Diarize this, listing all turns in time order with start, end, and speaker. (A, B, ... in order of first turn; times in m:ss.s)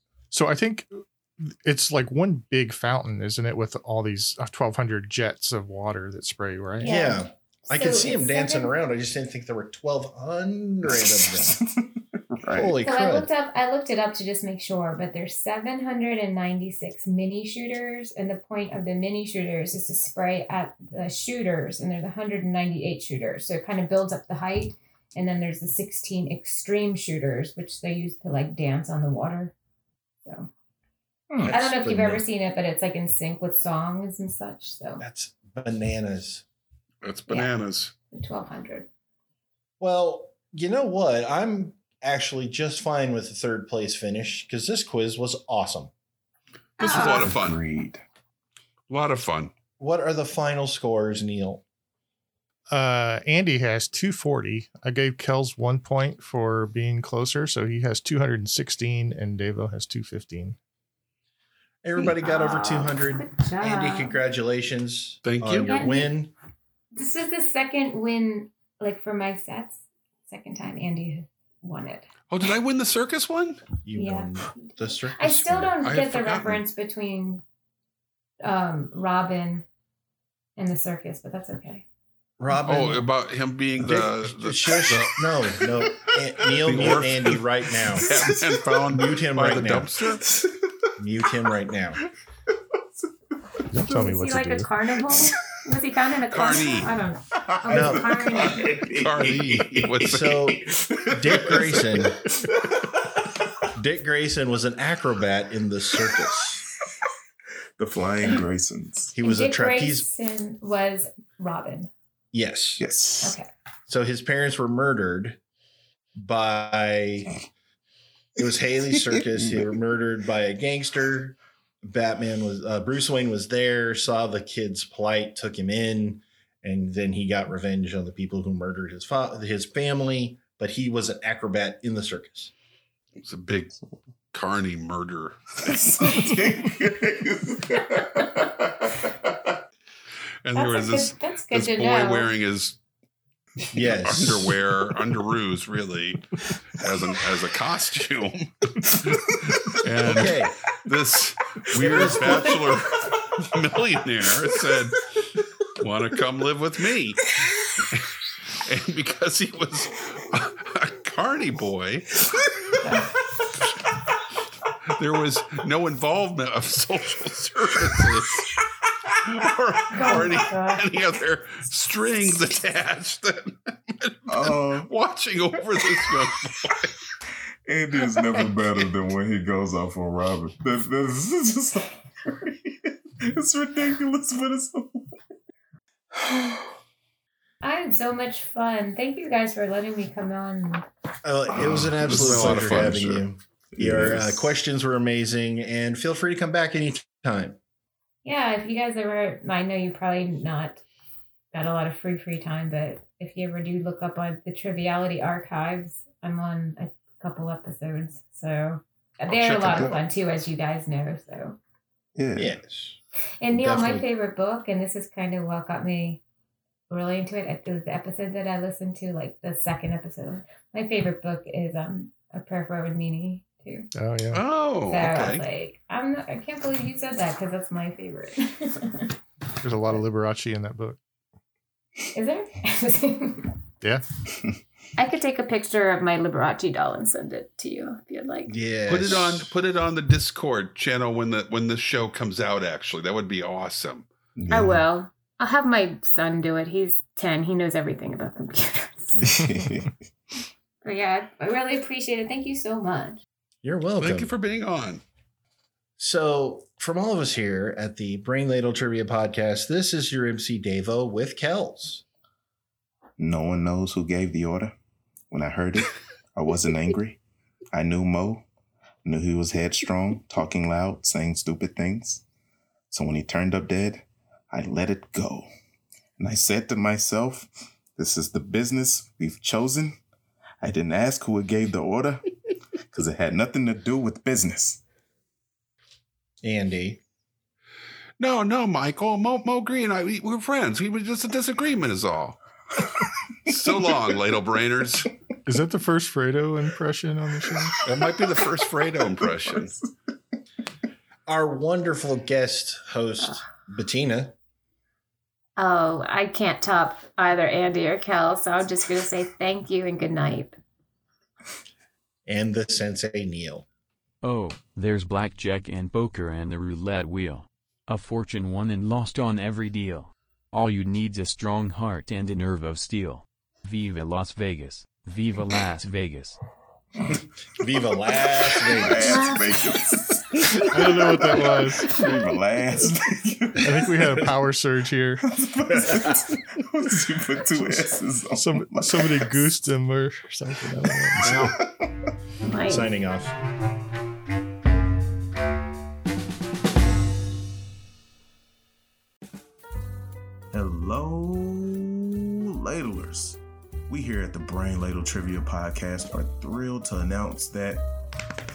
0:00.3-0:06.9 A
0:06.8-0:08.7 B
0:06.8-0:11.6 C
0:10.9-0:12.8 D
0:12.5-0:13.3 C
0:12.8-0:29.5 B
0:30.2-0:30.5 B
0:31.3-0:32.2 D
0:31.4-0:32.2 C
0:31.5-0:35.0 B
0:35.0-0:36.4 C
0:37.0-0:37.9 E
0:38.1-0:38.9 B
0:39.8-0:45.9 C
0:46.8-0:47.3 B
0:46.8-0:47.6 E
0:46.8-0:48.0 D
0:48.9-0:49.5 E
0:49.8-0:51.6 C
0:52.7-1:00.6 A
1:01.8-1:06.3 C
1:02.0-1:04.2 B
1:05.2-1:05.8 E
1:05.7-1:06.1 B
1:07.0-1:12.1 B
1:12.3-1:13.6 E
1:13.8-1:15.8 C
1:14.0-1:17.4 B
1:15.8-1:16.6 E
1:18.4-1:19.6 B
1:20.6-1:21.8 B
1:22.4-1:23.1 C
1:22.6-1:25.3 E
1:23.8-1:28.3 C
1:26.6-1:27.4 E
1:27.9-1:28.4 D
1:28.0-1:30.2 E
1:28.9-1:29.9 C
1:30.3-1:30.9 D
1:31.0-1:32.0 C
1:33.7-1:34.7 A
1:33.8-1:34.1 D
1:33.9-1:38.8 B
1:35.0-1:35.4 D
1:36.3-1:36.9 E
1:37.6-1:40.0 D
1:37.7-1:38.6 C
1:39.0-1:40.6 E
1:40.0-1:42.2 C
1:40.9-1:42.9 D
1:43.8-1:46.6 C
1:47.8-1:49.1 D
1:49.2-1:50.1 C
1:49.2-1:51.9 B
1:52.3-1:52.8 C
1:52.8-1:53.4 D
1:53.2-1:53.5 B
1:53.9-1:55.4 C
1:56.2-1:57.3 C
1:58.4-2:12.5 C
2:13.2-2:13.8 E
2:14.3-2:15.9 E
2:15.6-2:19.4 D
2:20.4-2:22.8 E
2:20.5-2:22.3 B
2:23.7-2:24.6 C
2:23.8-2:35.1 E
2:30.0-2:30.6 C
2:31.7-2:32.6 C
2:35.8-2:37.3 E
2:37.8-2:42.2 E
2:42.8-2:43.1 B
2:44.9-2:48.6 E
2:49.1-2:56.9 E
2:49.9-2:50.8 B
2:54.3-2:54.9 D
2:57.7-3:05.2 D
3:06.2-3:06.7 D
3:07.6-3:10.9 B
3:11.2-3:17.6 C
3:11.7-3:13.0 D
3:11.8-3:13.2 E
3:13.7-3:14.5 D
3:18.2-3:20.8 B
3:21.5-3:31.6 B
3:29.3-3:29.9 E
3:29.7-3:30.0 D
3:32.2-3:32.5 D
3:32.4-3:33.0 C
3:33.4-3:36.2 B
3:33.5-3:34.1 C
3:36.9-3:43.9 B
3:44.0-3:44.4 A
3:44.3-3:45.4 E
3:44.9-3:49.1 B
3:49.6-3:51.0 A
3:52.1-3:53.5 B
3:55.0-3:58.5 B
3:58.5-3:59.5 C
3:58.9-4:04.1 E
4:04.4-4:04.8 D
4:04.5-4:09.2 B
4:09.1-4:09.7 C
4:09.2-4:10.0 D
4:10.8-4:13.2 B
4:13.6-4:14.3 C
4:14.0-4:15.0 E
4:16.0-4:22.0 C
4:23.2-4:24.8 D
4:25.3-4:27.2 D
4:27.7-4:28.5 D
4:29.0-4:32.2 D
4:32.9-4:35.5 D
4:36.2-4:40.0 D
4:40.6-4:42.3 D
4:42.9-4:44.8 D
4:46.4-4:47.0 C
4:48.2-4:52.4 E
4:53.5-4:55.1 E
4:55.5-4:57.8 A
4:57.6-4:59.9 D
4:57.8-4:59.8 E
5:01.3-5:04.4 C
5:05.6-5:10.6 B
5:12.3-5:13.7 C
5:14.2-5:26.4 F
5:27.6-5:29.3 C
5:28.6-5:34.3 D
5:29.0-5:30.6 B
5:30.7-5:31.9 A
5:33.6-5:35.2 A
5:35.2-5:39.5 D
5:35.7-5:36.3 C
5:38.3-5:41.4 A
5:41.0-5:42.1 D
5:41.2-5:41.5 E
5:42.4-5:42.9 B
5:42.6-5:43.4 C
5:50.5-5:57.9 D